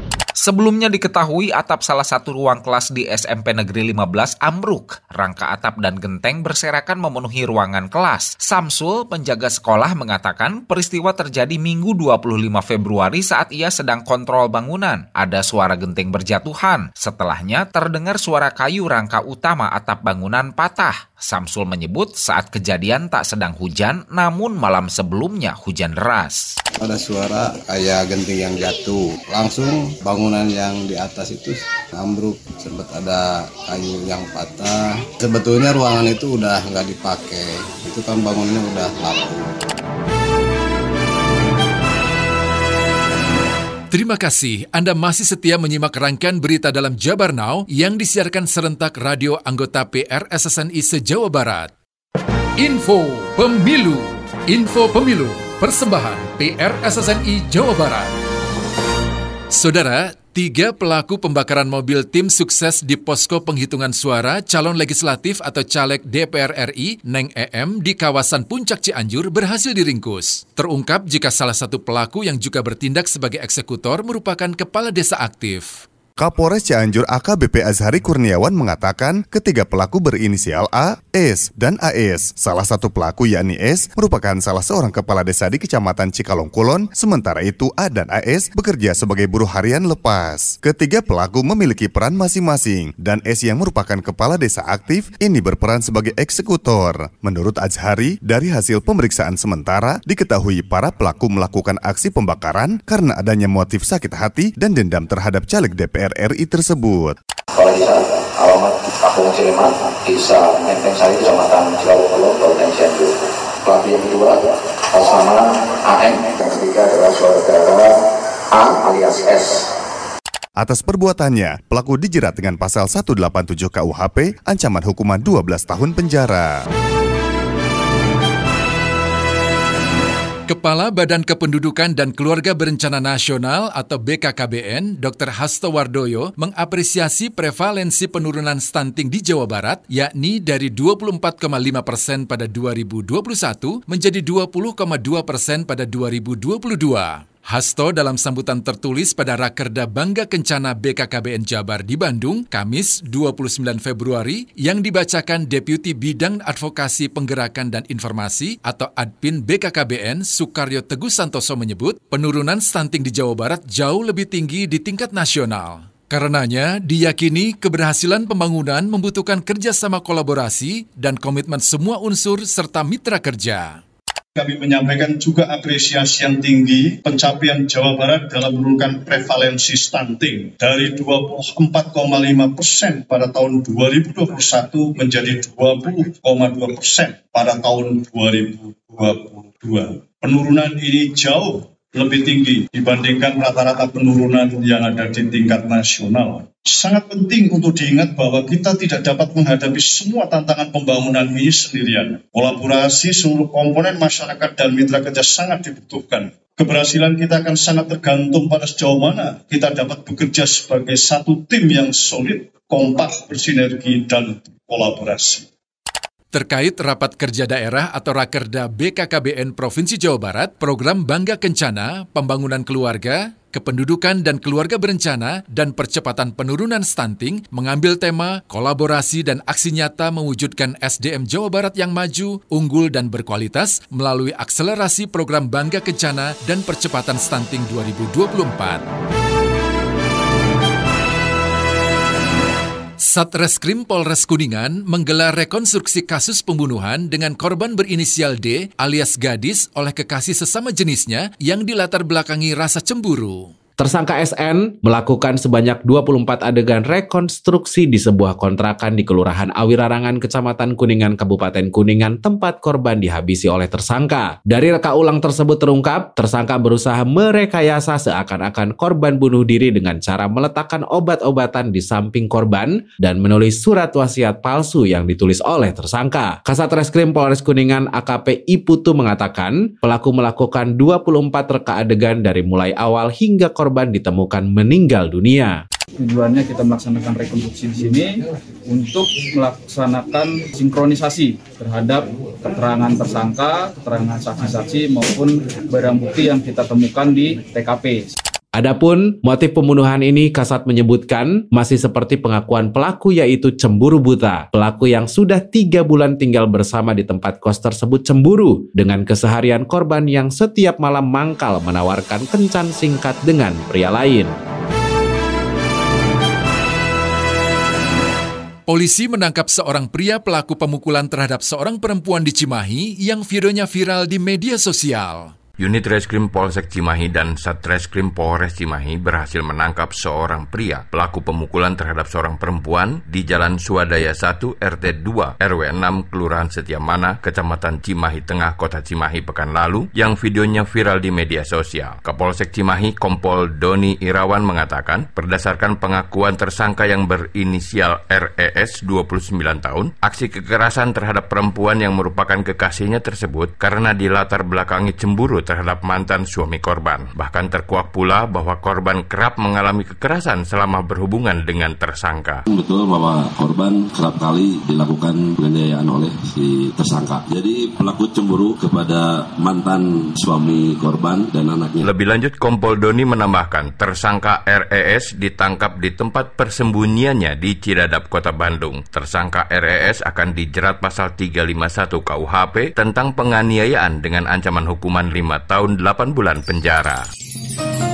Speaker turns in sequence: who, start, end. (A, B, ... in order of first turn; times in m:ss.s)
0:00.4-0:26.5 A
0:26.8-0:39.5 B
0:43.9-0:51.7 C
0:52.6-0:58.1 C
0:59.5-1:15.8 C
1:16.2-1:47.2 D
1:47.6-1:57.9 E
1:58.5-1:59.6 E
2:00.6-2:06.5 D
2:10.5-2:53.8 C
2:54.4-3:35.5 F
3:36.3-3:58.8 C
4:03.0-4:13.5 C
4:13.8-4:45.5 G
4:46.0-4:58.2 H
4:58.6-5:14.4 G
5:18.7-5:25.3 C
5:25.6-6:02.4 I
6:02.5-6:11.9 J
6:11.8-6:27.0 I